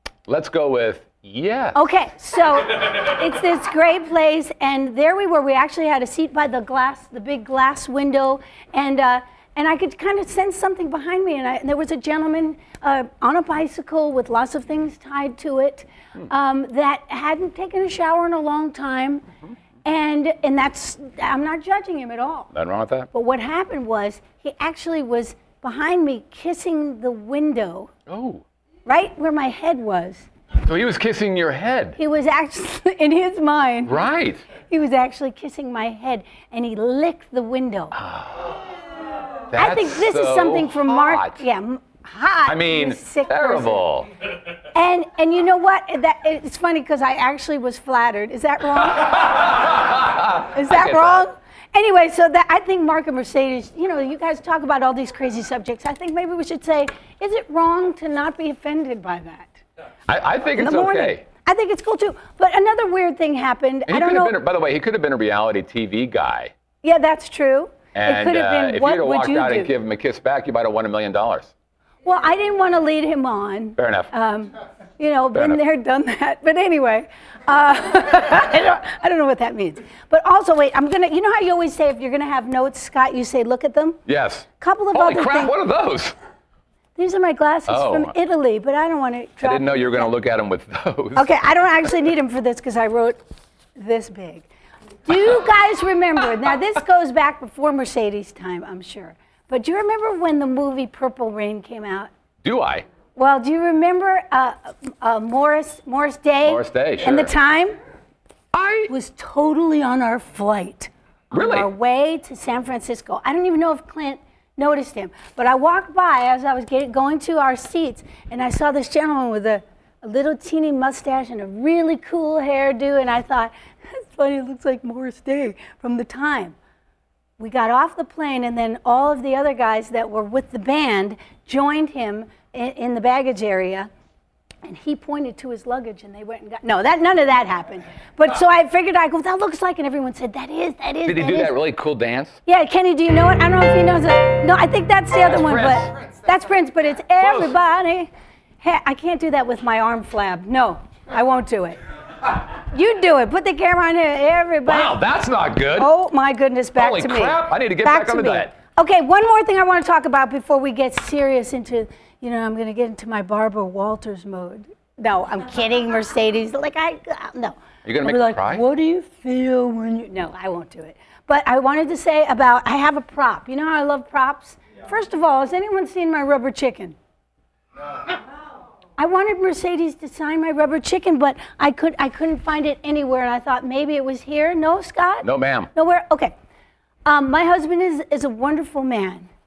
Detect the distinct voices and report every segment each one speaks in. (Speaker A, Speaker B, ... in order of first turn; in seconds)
Speaker A: 0.3-1.8, 22.5-23.1, 28.1-28.4, 30.6-32.0, 33.9-34.5, 38.0-38.5, 39.5-41.4, 42.5-44.1, 49.4-51.2, 60.1-61.2, 63.9-66.5, 68.0-71.5, 73.8-74.1, 75.3-75.6, 84.1-86.2, 87.7-88.1, 89.4-91.3, 102.4-102.9, 106.5-107.3, 108.5-108.9, 111.3-111.7, 141.1-142.4, 145.3-145.9, 147.2-147.6, 154.7-155.9, 156.8-158.5, 167.8-168.6, 185.2-185.7
Speaker B: 1.7-19.2, 19.9-22.5, 23.1-27.9, 28.9-30.3, 32.0-34.0, 34.7-37.9, 39.6-43.8, 44.7-49.3, 50.5-59.6, 60.6-64.4, 66.8-69.7, 72.0-84.0, 84.6-85.6, 87.0-90.1, 91.2-93.2, 93.8-94.5, 95.0-102.1, 103.2-107.8, 108.9-126.6, 127.4-133.9, 134.6-141.6, 142.5-148.1, 148.6-151.8, 152.7-155.0, 155.8-177.0, 179.0-186.3, 187.1-189.3